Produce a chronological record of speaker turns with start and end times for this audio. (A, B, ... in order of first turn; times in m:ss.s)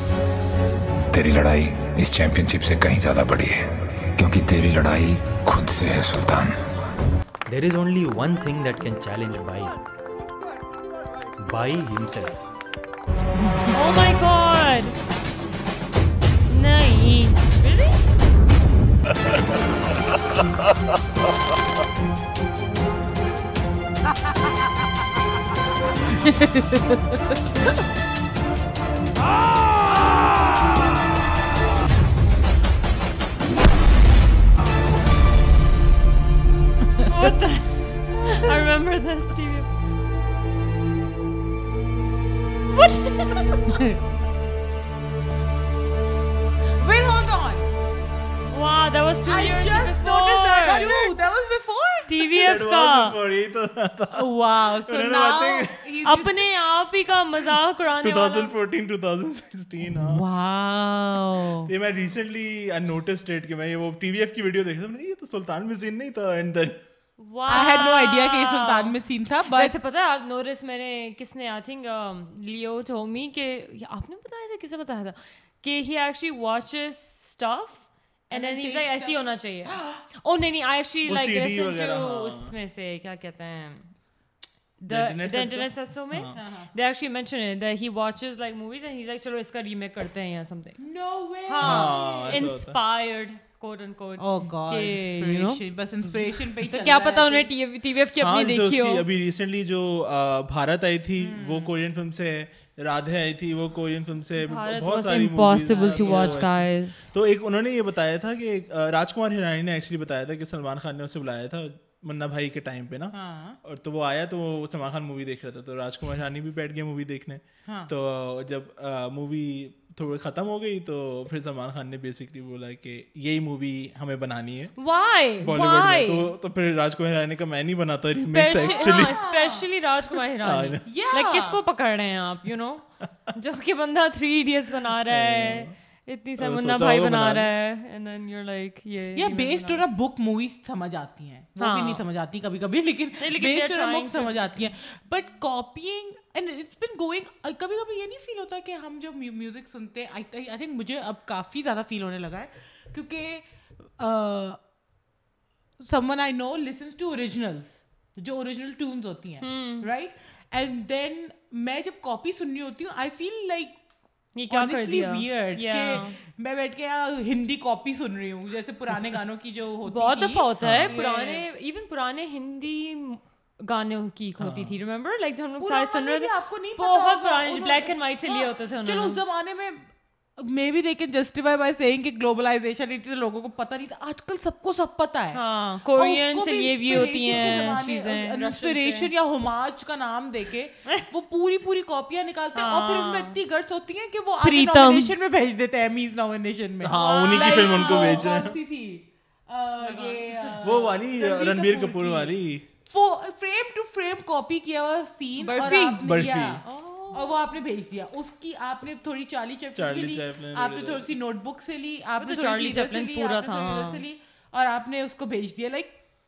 0:01.1-0:06.6 A
0:07.5-0:09.8 B
0:11.4-0:12.4 B
0:13.7-0:14.9 C
0:16.5-0:18.0 C
0:26.2-0:27.2 D
0:37.0-0:39.7 C
0:42.7-0:43.6 C
0:43.6-0:44.0 D
0:46.8-0:47.6 D
0:48.5-0:51.1 C
0:49.3-0:52.4 D
0:52.1-0:53.2 C
0:52.4-0:55.7 E
0:54.1-0:56.4 D
0:56.0-0:58.6 C
0:58.0-1:00.2 E
1:00.1-1:01.7 D
1:01.6-1:06.8 E
1:07.2-1:23.9 C
1:07.5-1:09.8 D
1:18.3-1:20.0 D
1:21.0-1:22.5 E
1:24.8-1:30.8 C
1:24.9-1:26.3 E
1:26.3-1:26.7 D
1:30.8-1:32.5 D
1:31.4-1:39.1 C
1:31.6-1:32.8 E
1:34.2-1:37.5 D
1:38.2-2:04.7 E
1:41.2-1:41.8 D
1:44.4-1:47.1 C
1:45.7-1:46.6 D
1:53.1-1:53.6 D
1:57.6-1:57.9 D
2:04.8-2:06.3 C
2:05.4-2:09.2 E
2:08.1-2:19.9 C
2:08.5-2:09.6 D
2:10.4-2:10.8 E
2:10.8-2:11.6 D
2:15.1-2:15.7 E
2:16.4-2:17.5 E
2:19.2-2:34.6 D
2:21.6-2:22.0 C
2:23.2-2:24.6 C
2:35.8-2:43.8 D
2:39.4-2:39.9 C
2:44.3-2:46.2 C
2:44.5-2:51.4 D
2:49.8-2:59.2 C
2:50.6-2:51.0 E
2:54.4-2:54.8 E
2:55.6-3:36.0 D
3:05.3-3:09.1 C
3:12.5-3:13.3 C
3:14.4-3:15.1 C
3:16.8-3:18.5 E
3:16.9-3:18.3 C
3:19.8-3:20.3 C
3:20.6-3:22.6 E
3:25.4-3:26.0 C
3:25.6-3:26.6 E
3:26.6-3:27.3 C
3:29.7-3:31.1 E
3:32.2-3:34.0 C